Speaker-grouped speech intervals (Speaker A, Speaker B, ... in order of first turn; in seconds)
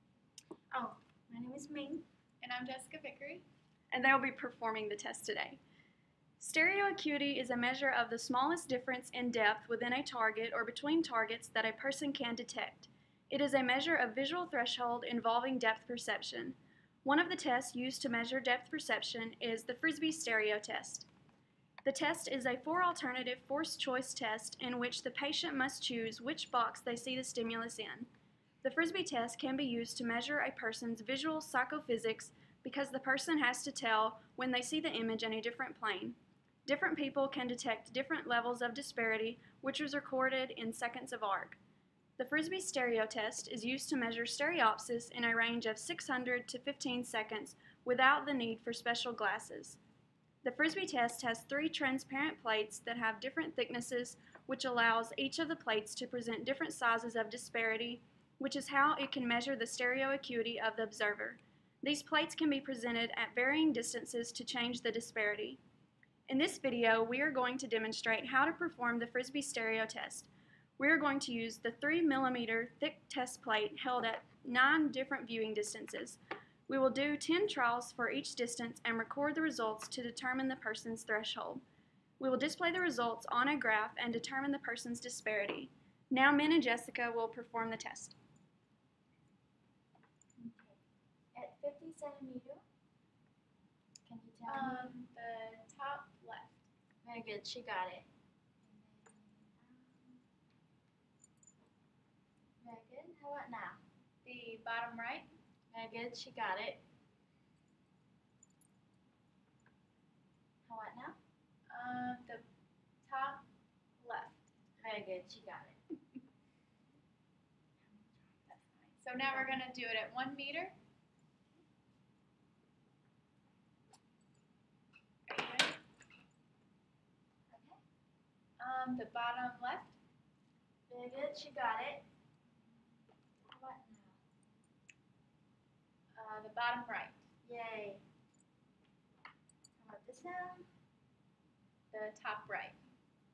Speaker A: 0.7-2.0, 90.4-90.8, 91.3-92.6, 94.0-94.9, 97.0-98.1, 98.7-100.2, 102.6-103.8, 105.7-106.8, 110.7-111.2, 114.8-115.8, 117.9-118.2, 130.9-132.0, 133.5-134.2, 137.4-138.0, 139.8-140.7
Speaker B: 2.4-3.4, 94.5-96.7, 104.2-105.3, 111.7-112.4, 113.1-113.5, 114.0-114.4, 118.5-120.7, 125.3-125.8, 128.6-129.9, 136.2-137.2, 141.9-142.8
Speaker C: 3.9-5.6, 6.4-21.1, 21.8-28.1, 28.6-41.6, 42.2-49.8, 50.4-65.6, 66.3-81.6, 82.2-88.2